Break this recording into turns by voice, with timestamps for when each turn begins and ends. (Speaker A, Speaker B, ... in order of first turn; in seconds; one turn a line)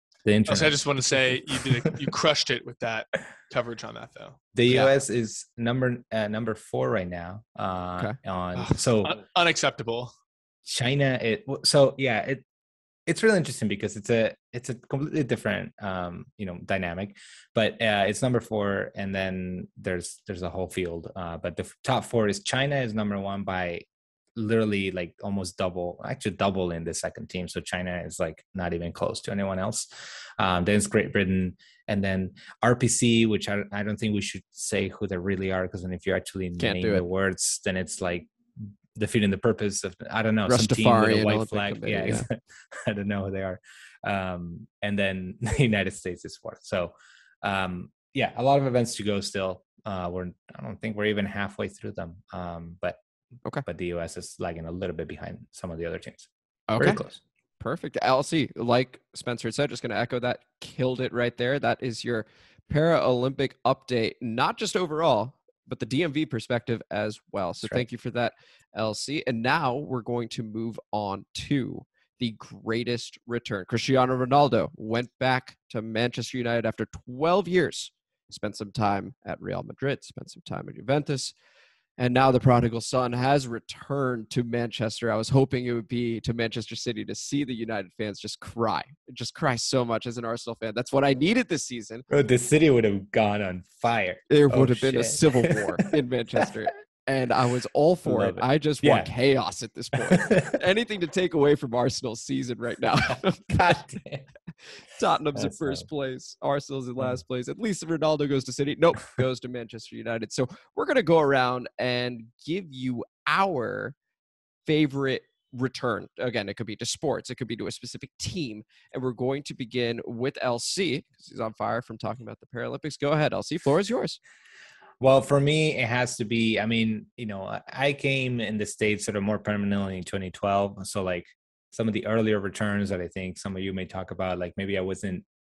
Speaker A: 0.2-2.0
Speaker B: 0.5-4.4
Speaker A: 4.5-9.2
Speaker C: 4.7-5.0
Speaker B: 8.6-10.1
Speaker A: 10.7-12.4
Speaker A: 13.1-23.8
Speaker A: 24.4-29.9
Speaker A: 30.4-53.0
Speaker C: 36.6-37.0
Speaker C: 40.5-42.2
Speaker A: 53.6-57.2
Speaker C: 56.7-57.0
Speaker C: 57.6-81.3
Speaker C: 82.0-92.0
Speaker A: 92.1-95.9
Speaker C: 94.3-103.8
Speaker A: 98.0-99.1
Speaker A: 100.1-100.5
Speaker A: 103.1-104.2
Speaker C: 105.0-113.9
Speaker A: 105.3-105.8
Speaker C: 114.7-124.2
Speaker A: 125.0-135.2